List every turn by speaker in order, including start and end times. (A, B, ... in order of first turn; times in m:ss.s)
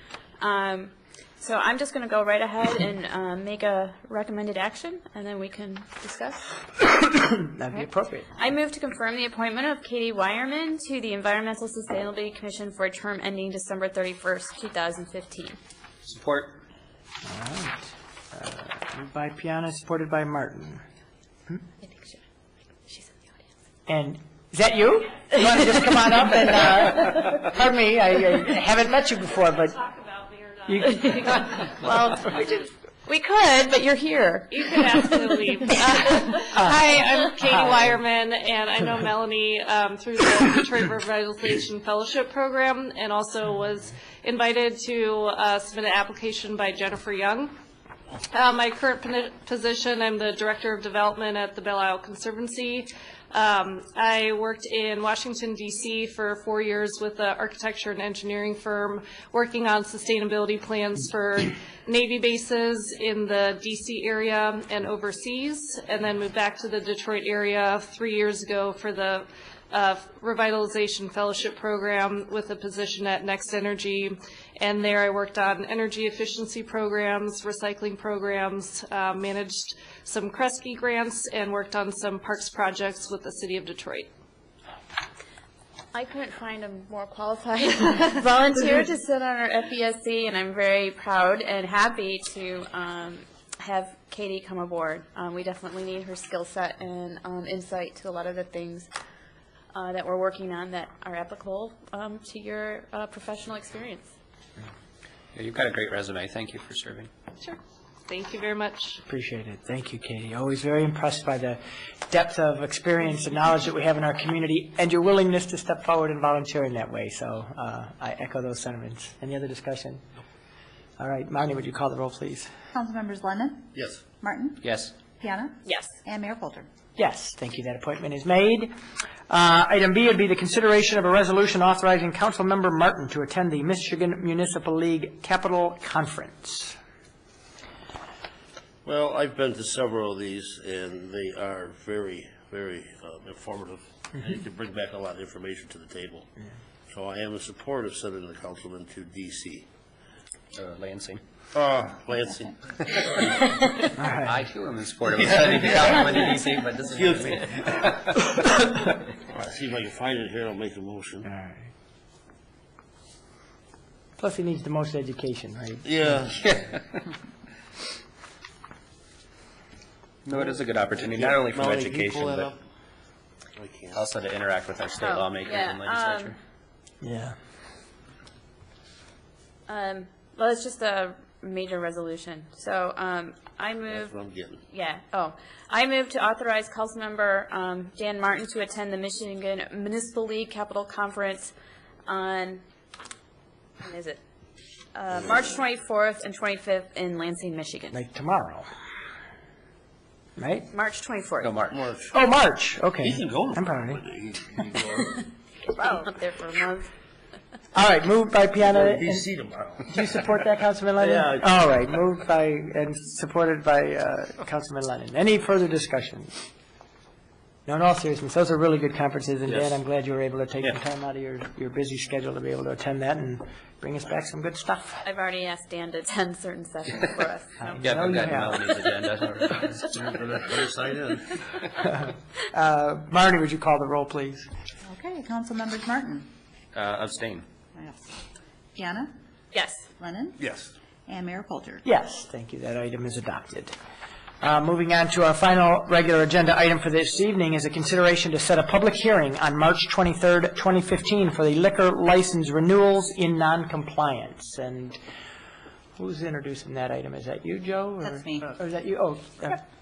0:00.4-0:06.5 A
0:07.1-0:08.3 B
0:07.7-0:15.6 A
0:16.1-0:16.6 C
0:17.2-0:20.8 B
0:21.8-0:22.2 A
0:23.9-0:29.8 B
0:29.7-0:31.8 D
0:30.7-0:31.0 B
0:31.8-0:35.0 A
0:34.5-0:47.5 D
0:48.3-1:24.1 D
1:25.9-1:38.9 A
1:39.7-1:44.1 A
1:45.4-1:47.1 C
1:47.4-1:49.0 D
1:49.1-2:00.0 B
2:01.0-2:02.5 B
2:02.7-2:03.7 E
2:03.7-2:04.0 F
2:04.2-2:04.6 E
2:04.6-2:04.9 C
2:05.2-2:06.7 E
2:05.7-2:05.9 A
2:07.0-2:08.7 B
2:09.3-2:16.8 B
2:18.8-2:26.3 F
2:26.9-2:29.7 F
2:30.6-2:31.2 C
2:31.5-2:33.0 F
2:33.0-2:38.1 C
2:34.0-2:34.4 B
2:35.1-2:37.9 F
2:39.3-2:41.3 F
2:41.2-2:41.7 B
2:44.2-2:46.3 B
2:45.8-2:46.5 F
2:46.4-2:47.0 C
2:50.2-2:52.5 C
2:50.3-2:52.6 F
2:53.6-2:54.0 F
2:53.9-2:56.4 C
2:55.0-2:56.4 A
2:57.0-2:57.4 B
2:59.7-3:04.2 A
3:03.9-3:04.6 F
3:04.7-3:11.5 A
3:12.1-3:12.6 A
3:13.8-3:14.2 A
3:14.9-3:18.0 A
3:15.1-3:15.5 F
3:17.9-3:18.7 B
3:20.4-3:20.7 B
3:20.7-3:21.6 A
3:21.4-3:21.8 C
3:21.7-3:22.1 F
3:22.1-3:24.0 B
3:23.0-3:25.2 F
3:25.7-3:26.9 A
3:27.7-3:29.3 B
3:28.6-3:30.2 F
3:29.9-3:36.4 B
3:31.0-3:31.4 F
3:37.7-3:45.0 B
3:45.0-3:47.8 A
3:47.6-3:48.6 B
3:47.8-3:50.0 C
3:49.8-3:51.4 F
3:51.8-3:54.5 B
3:54.8-3:56.3 E
3:56.7-3:57.5 C
3:57.8-3:58.2 E
3:58.8-3:59.1 E
3:59.5-3:59.9 A
4:00.0-4:00.4 E
4:00.4-4:00.7 F
4:01.1-4:01.8 E
4:01.8-4:03.7 B
4:04.4-4:15.0 B
4:16.0-4:19.6 B
4:18.0-4:18.5 E